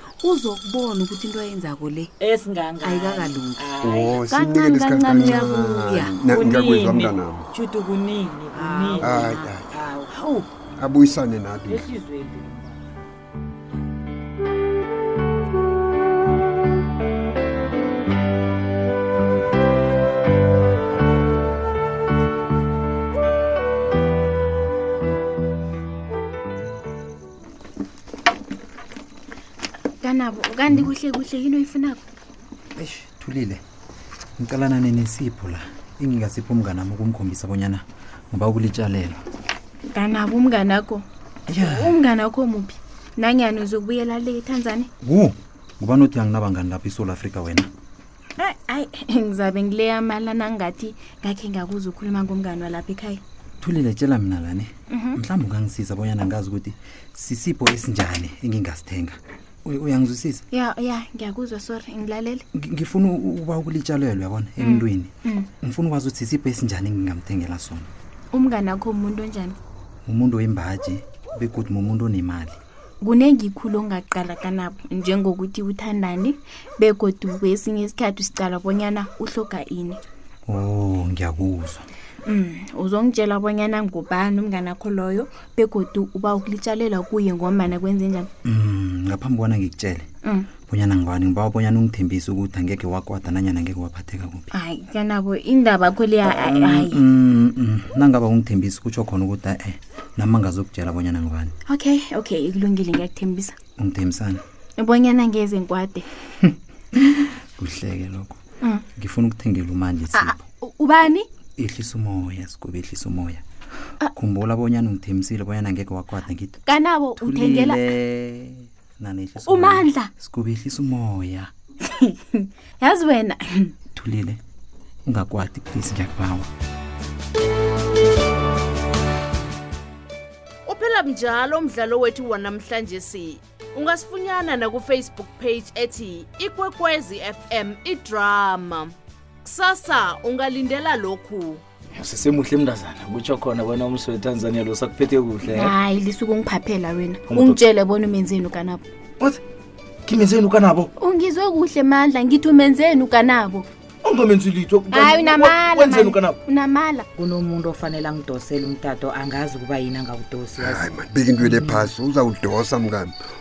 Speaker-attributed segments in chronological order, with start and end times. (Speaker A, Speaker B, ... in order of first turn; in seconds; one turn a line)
Speaker A: 0.2-2.1
Speaker B: 2.2-4.3
Speaker A: 2.8-6.3
Speaker C: 3.8-7.5
Speaker B: 6.3-10.3
Speaker A: 8.5-9.6
Speaker C: 9.0-9.7
Speaker A: 10.2-10.4
Speaker C: 10.8-11.8
Speaker B: 11.7-12.9
Speaker D: 30.0-32.0
Speaker E: 32.8-33.6
Speaker E: 34.4-39.2
Speaker D: 39.9-41.0
Speaker E: 41.5-42.0
Speaker D: 41.6-44.9
Speaker E: 45.0-47.7
Speaker D: 48.4-53.2
Speaker E: 53.6-60.4
Speaker D: 54.9-55.2
Speaker D: 60.5-62.4
Speaker E: 62.5-67.9
Speaker D: 64.6-65.5
Speaker D: 68.3-69.6
Speaker E: 70.0-72.6
Speaker D: 73.0-80.0
Speaker E: 80.5-81.8
Speaker D: 82.2-88.3
Speaker E: 88.4-90.1
Speaker D: 90.2-90.5
Speaker E: 90.7-94.5
Speaker D: 94.5-97.0
Speaker E: 96.3-101.5
Speaker D: 101.7-103.5
Speaker E: 103.8-104.4
Speaker D: 104.8-106.0
Speaker E: 106.4-108.4
Speaker E: 108.9-110.4
Speaker D: 110.1-111.3
Speaker E: 111.6-113.4
Speaker E: 114.1-116.6
Speaker D: 116.6-117.9
Speaker E: 117.2-121.5
Speaker D: 119.4-120.1
Speaker D: 122.0-123.7
Speaker E: 123.9-124.4
Speaker E: 125.0-126.5
Speaker F: 130.7-141.6
Speaker G: 141.9-145.7
Speaker D: 145.5-148.8
Speaker G: 147.3-147.6
Speaker G: 150.1-150.9
Speaker D: 151.0-153.7
Speaker G: 154.0-156.4
Speaker D: 154.9-157.0
Speaker B: 157.2-160.9
Speaker C: 160.6-163.1